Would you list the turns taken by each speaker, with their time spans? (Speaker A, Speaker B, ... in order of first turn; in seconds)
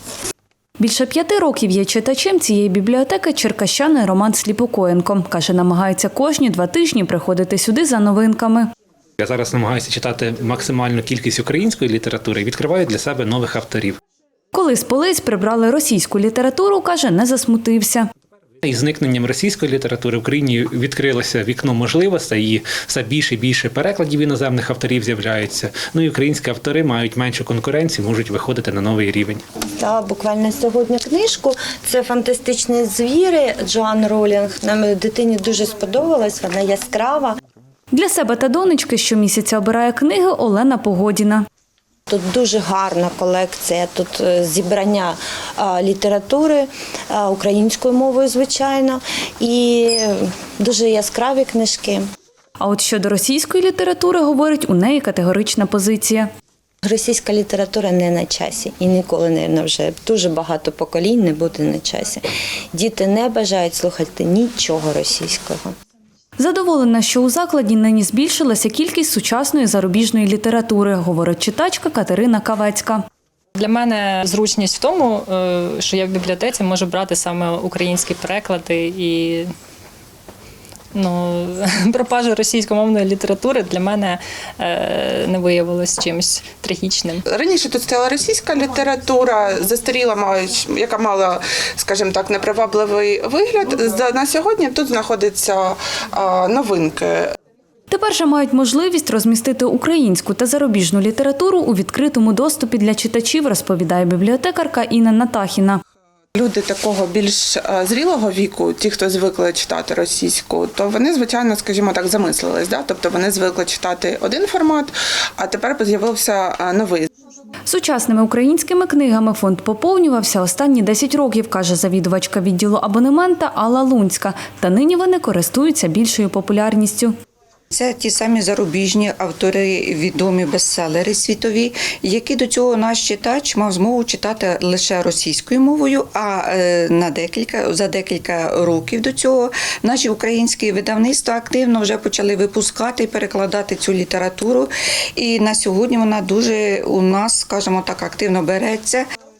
Speaker A: 0.8-8.7, 14.5-18.1, 37.9-41.4, 52.6-56.3, 66.4-73.0, 97.9-105.8, 117.7-127.1
Speaker B: 9.2-14.0, 18.6-29.4
Speaker C: 29.8-37.4, 42.1-52.0, 56.8-62.2, 62.7-65.7
Speaker D: 73.5-79.5, 80.9-87.2
Speaker E: 87.2-97.3, 106.3-117.1
Speaker F: 127.7-149.0